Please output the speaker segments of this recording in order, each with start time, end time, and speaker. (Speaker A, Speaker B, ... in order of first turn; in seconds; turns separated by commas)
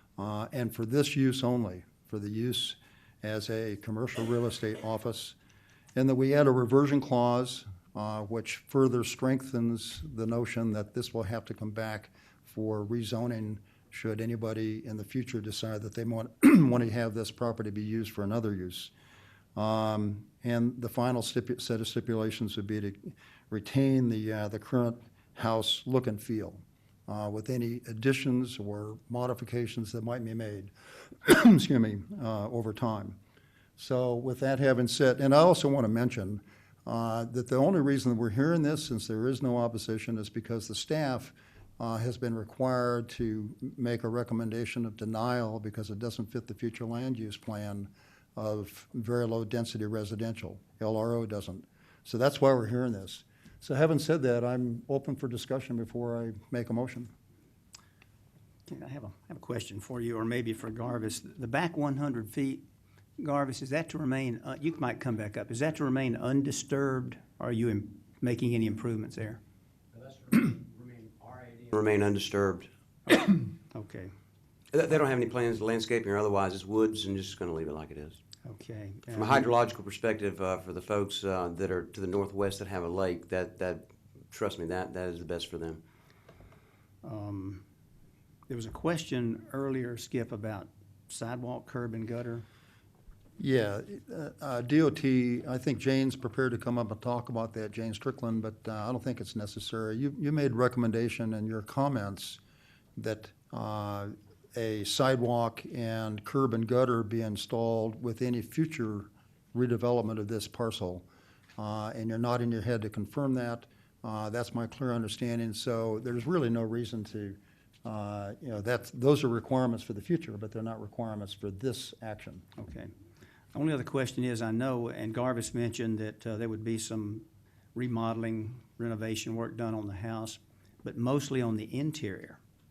Speaker A: 0.2-5.3, Speaker A: 6.0-18.9, Speaker A: 19.6-33.2, Speaker A: 33.8-57.1, Speaker B: 58.7-62.6, Speaker B: 63.2-69.4, Speaker C: 70.1-73.2, Speaker B: 73.2-74.1, Speaker C: 74.7-78.2, Speaker B: 78.5-79.5, Speaker C: 79.2-85.8, Speaker B: 87.0-87.6, Speaker B: 88.5-92.5, Speaker A: 93.4-102.4, Speaker A: 103.0-111.0, Speaker A: 111.6-122.5, Speaker B: 122.6-122.9, Speaker B: 123.5-132.4